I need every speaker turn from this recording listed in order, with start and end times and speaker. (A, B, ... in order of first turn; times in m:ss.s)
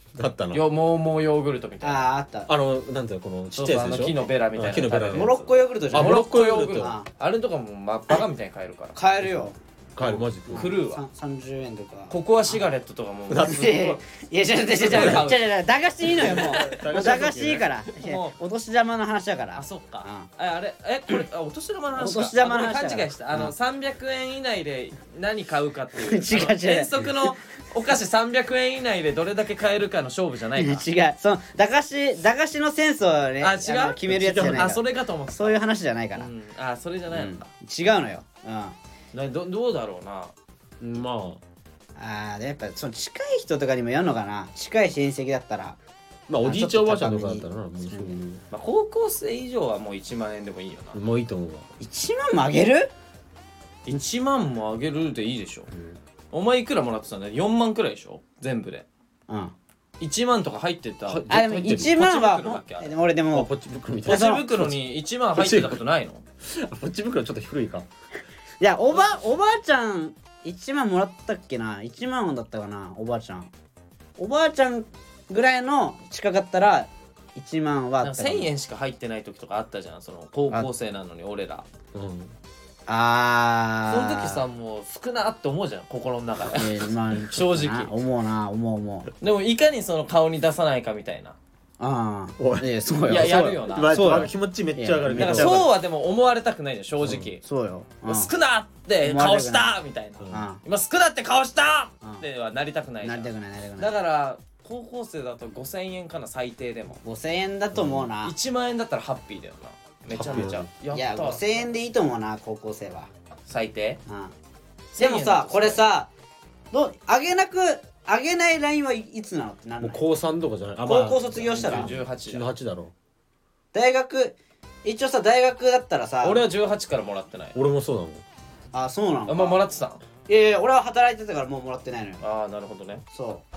0:00.2-0:00.6 A
0:00.5-0:02.0 B
0:01.8-0:02.5 C
0:02.5-0:05.4 A
0:03.5-0:09.0 B
0:05.1-0:07.1 C
0:05.9-0:06.9 A
0:08.9-0:12.6 C
0:09.2-0:10.7 A
0:10.5-0:11.0 B
0:12.1-0:14.0 B
0:13.3-0:13.7 A
0:13.4-0:20.3 C
0:14.8-0:15.5 B
0:14.9-0:15.2 A
0:16.2-0:17.6 A
0:16.2-0:16.9 B
0:18.0-0:18.4 B
0:19.6-0:30.8 B
0:22.0-0:23.5 C
0:26.0-0:27.1 C
0:30.6-0:36.3 C
0:33.4-0:35.6 B
0:34.1-0:34.8 A
0:36.2-0:37.5 B
0:37.1-0:38.8 C
0:39.1-0:40.3 B
0:40.8-0:41.4 A
0:42.0-0:45.8 C
0:46.3-0:48.4 A
0:46.4-0:48.2 C
0:48.5-0:51.0 B
0:50.9-0:51.7 A
0:51.8-0:52.9 C
0:53.8-0:55.7 B
0:55.7-0:56.0 A
0:56.3-0:58.9 B
0:59.3-0:59.5 C
1:00.0-1:02.9 B
1:01.1-1:02.0 A
1:01.3-1:03.5 C
1:03.3-1:04.8 A
1:04.1-1:06.2 B
1:04.1-1:04.5 C
1:05.3-1:05.8 A
1:06.4-1:07.9 A
1:08.6-1:13.5 C
1:14.2-1:18.5 C
1:18.0-1:21.7 B
1:21.9-1:22.4 A
1:22.9-1:24.4 C
1:23.9-1:27.9 B
1:26.5-1:29.1 C
1:29.2-1:31.4 B
1:31.8-1:35.7 C
1:32.4-1:35.7 A
1:33.1-1:34.2 B
1:35.2-1:37.4 B
1:37.0-1:37.3 A
1:37.4-1:38.3 C
1:38.1-1:47.0 B
1:39.0-1:39.8 C
1:40.2-1:40.5 A
1:40.3-1:40.6 C
1:43.0-1:43.9 C
1:47.0-1:48.3 C
1:47.7-1:48.1 A
1:48.2-1:51.7 B
1:50.1-1:50.7 A
1:50.2-1:53.1 C
1:53.5-1:54.0 B
1:54.1-1:54.3 C
1:54.9-1:55.8 B
1:55.0-1:56.1 C
1:56.7-2:00.0 C
1:59.8-2:02.9 A
2:00.8-2:01.9 C
2:01.6-2:02.5 B
2:03.7-2:06.5 C
2:06.2-2:07.6 B
2:07.6-2:08.2 A
2:08.7-2:09.6 C
2:09.3-2:10.0 B
2:10.3-2:12.2 C
2:12.2-2:13.0 B
2:13.1-2:13.4 C